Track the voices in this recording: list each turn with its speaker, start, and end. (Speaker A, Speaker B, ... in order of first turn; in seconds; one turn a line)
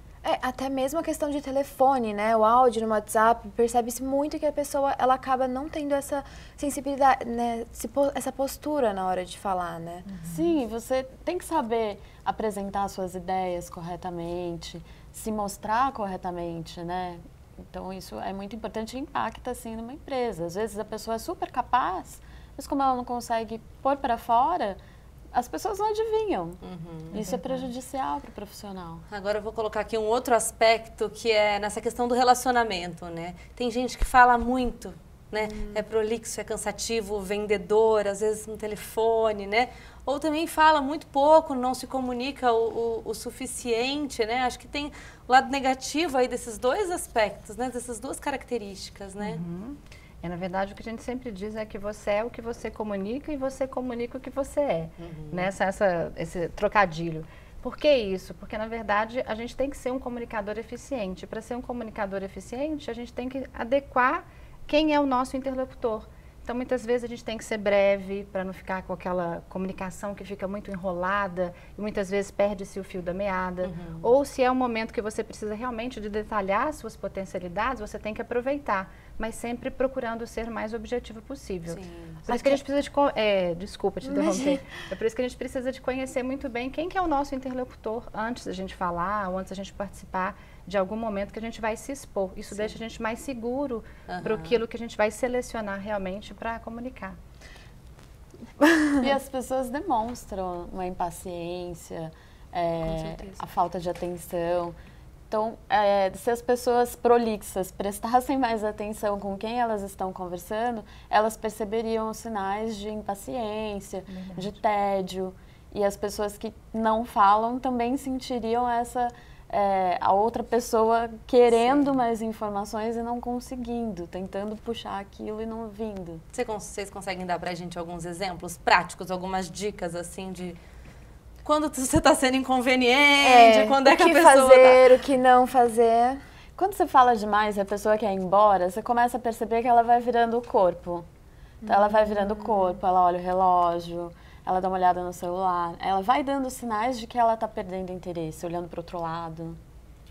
Speaker A: 0.2-10.1
Speaker B: 10.2-24.8
Speaker B: 25.3-26.6
Speaker C: 26.6-27.3
Speaker B: 27.1-29.1
Speaker D: 27.1-27.7
Speaker C: 29.1-49.4
Speaker D: 49.2-97.2
Speaker C: 55.0-55.5
Speaker C: 73.6-74.1
Speaker C: 81.7-82.2
Speaker A: 82.3-82.6
Speaker A: 84.0-84.7
Speaker C: 94.1-94.6
Speaker B: 99.0-104.8
Speaker C: 102.8-103.4
Speaker B: 105.3-126.2
Speaker D: 114.1-114.6
Speaker C: 121.5-121.8
Speaker C: 126.3-130.6
Speaker C: 131.4-134.9
Speaker A: 133.2-136.2
Speaker B: 136.6-141.1
Speaker B: 141.6-149.6
Speaker A: 141.7-142.3